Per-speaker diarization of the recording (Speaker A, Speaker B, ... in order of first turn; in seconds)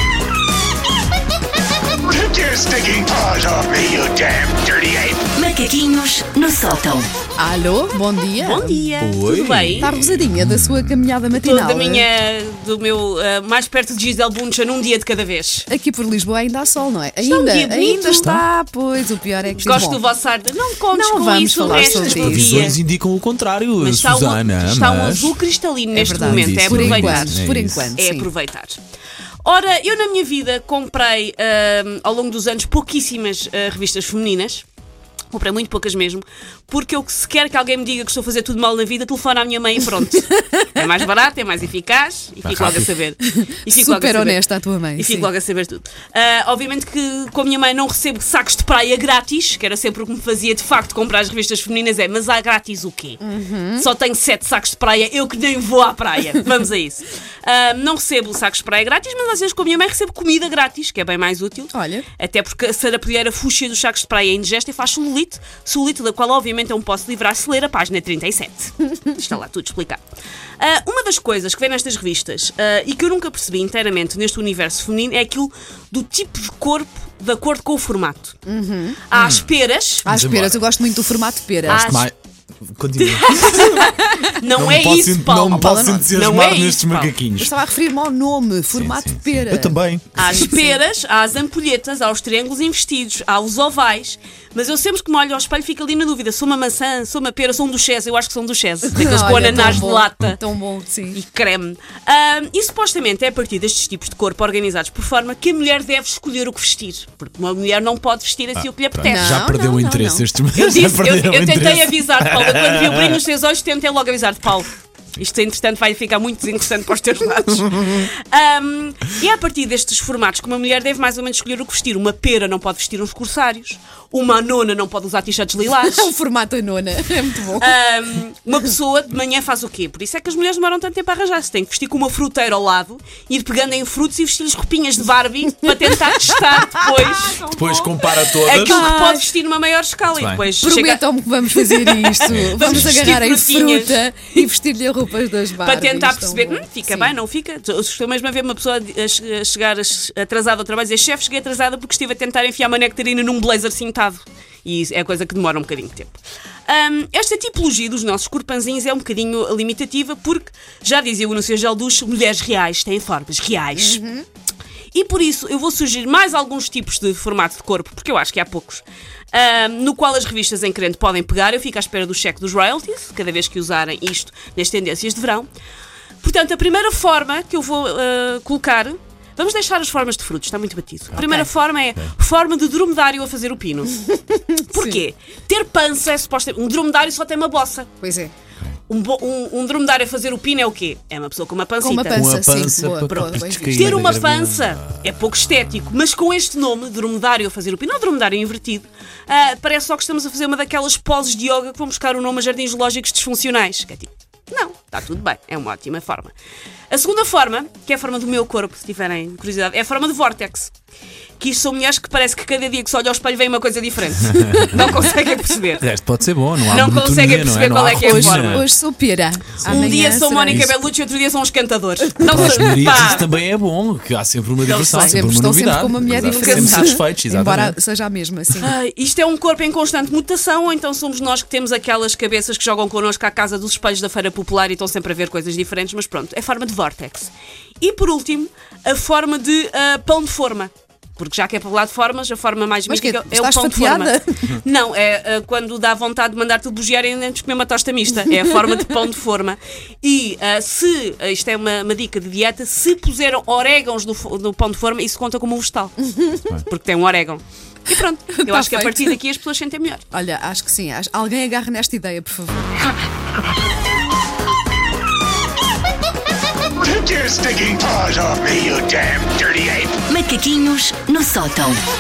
Speaker A: 2.1-5.2, 266.8-270.0
Speaker B: 5.3-7.1, 270.1-271.8
Speaker C: 7.4-8.8, 9.8-12.1, 15.7-20.0, 20.9-22.6, 26.0-28.3, 40.3-40.7, 43.3-45.3, 53.2-53.9, 61.7-62.0, 78.5-79.0, 80.0-81.9, 83.7-84.3, 85.6-86.0, 87.4-90.8, 98.9-101.2, 109.0-110.2, 125.8-127.7, 135.9-136.9, 138.6-139.2, 140.6-147.1, 163.8-164.2, 181.2-181.5, 184.1-185.0, 188.0-188.3, 191.8-194.1, 218.0-220.7, 222.2-222.6, 224.9-228.7, 242.9-244.4, 256.0-256.4, 258.3-259.2, 260.1-262.7
Speaker D: 8.4-9.9, 11.3-15.7, 17.2-18.4, 19.6-22.8, 23.8-27.4, 27.9-28.8, 29.4-34.7, 35.3-44.4, 45.0-53.2, 53.8-70.0, 70.6-78.4, 79.1-80.1, 81.7-82.1, 83.0-87.2, 90.2-100.4, 101.1-109.6, 110.5-126.1, 127.6-144.5, 145.6-164.0, 164.9-175.5, 176.2-184.0, 184.7-188.0, 188.9-192.4, 193.1-206.3, 206.9-210.7, 211.4-215.8, 216.7-218.7, 219.6-223.3, 224.6-225.3, 226.1-227.0, 228.6-256.1, 256.6-260.1
Speaker E: 9.0-10.2, 22.0-25.4, 26.0-27.9, 42.4-42.9, 79.1-79.5, 80.0-80.8, 81.6-83.9, 84.5-87.5, 88.7-90.2, 99.0-100.4, 108.6-113.2, 137.5-138.9, 140.2-140.4, 142.3-142.8, 192.1-195.1, 214.3-215.1, 215.8-218.7, 219.6-220.0, 222.2-227.8